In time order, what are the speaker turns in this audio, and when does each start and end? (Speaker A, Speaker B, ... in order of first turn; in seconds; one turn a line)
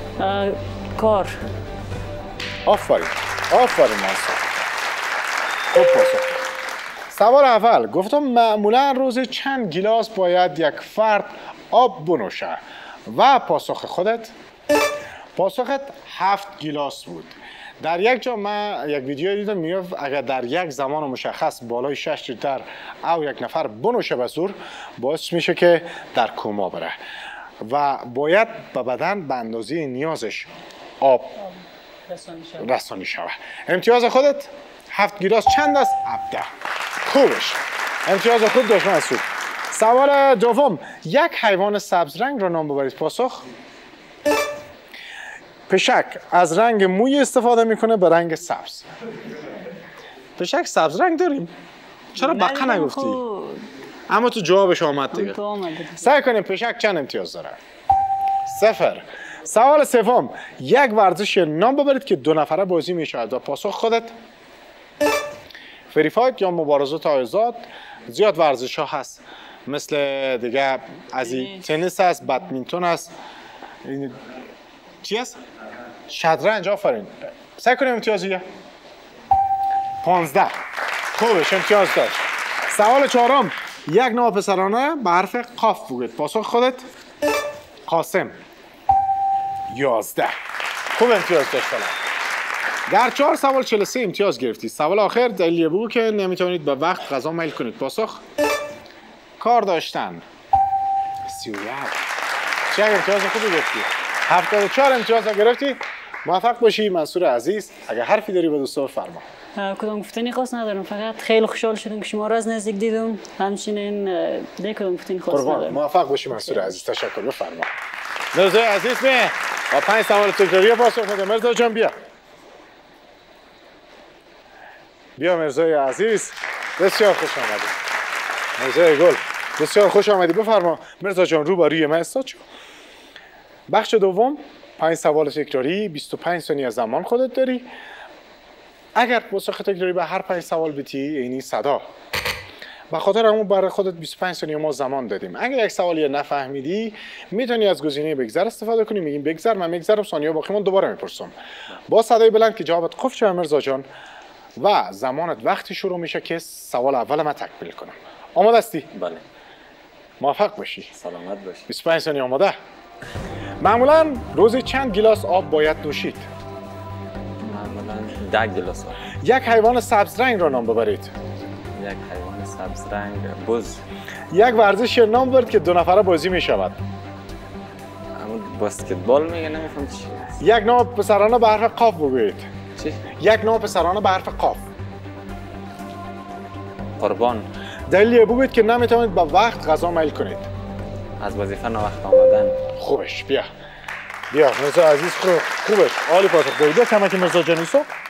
Speaker A: 0.2-1.3
Speaker B: 2.6-4.7
Speaker B: 5.7-6.5
Speaker B: 7.1-14.3
Speaker B: 15.3-26.9
Speaker B: 27.6-31.3
Speaker A: 32.1-32.6
Speaker B: 32.6-36.5
Speaker B: 37.0-43.5
Speaker B: 45.7-48.9
Speaker B: 50.4-51.5
Speaker B: 52.1-53.2
Speaker A: 52.2-53.6
Speaker B: 54.1-55.4
Speaker A: 55.1-56.1
Speaker B: 56.0-57.6
Speaker B: 58.5-64.1
Speaker B: 65.9-73.1
Speaker B: 73.8-74.2
Speaker B: 75.0-75.4
Speaker B: 76.1-78.4
Speaker B: 80.0-80.5
Speaker B: 81.1-86.8
Speaker B: 87.9-88.3
Speaker B: 89.7-90.3
Speaker B: 90.9-92.0
Speaker B: 92.9-98.2
Speaker B: 99.4-100.2
Speaker B: 101.3-102.0
Speaker B: 102.7-109.2
Speaker A: 109.6-115.8
Speaker B: 115.3-117.7
Speaker B: 118.3-121.9
Speaker B: 125.2-127.7
Speaker B: 128.6-132.4
Speaker B: 133.7-137.7
Speaker B: 138.9-141.8
Speaker B: 142.9-151.3
Speaker B: 151.9-153.8
Speaker B: 154.6-158.9
Speaker C: 158.9-159.2
Speaker B: 160.2-160.9
Speaker C: 160.9-161.7
Speaker B: 161.7-162.6
Speaker B: 163.6-166.3
Speaker C: 167.4-169.1
Speaker B: 169.2-171.1
Speaker C: 171.7-173.8
Speaker B: 174.3-176.8
Speaker C: 178.2-180.4
Speaker B: 180.4-182.5
Speaker C: 182.8-183.0
Speaker B: 183.2-184.6
Speaker C: 187.0-187.4
Speaker B: 187.9-190.5
Speaker C: 191.2-192.6
Speaker B: 192.8-193.5
Speaker B: 194.3-197.9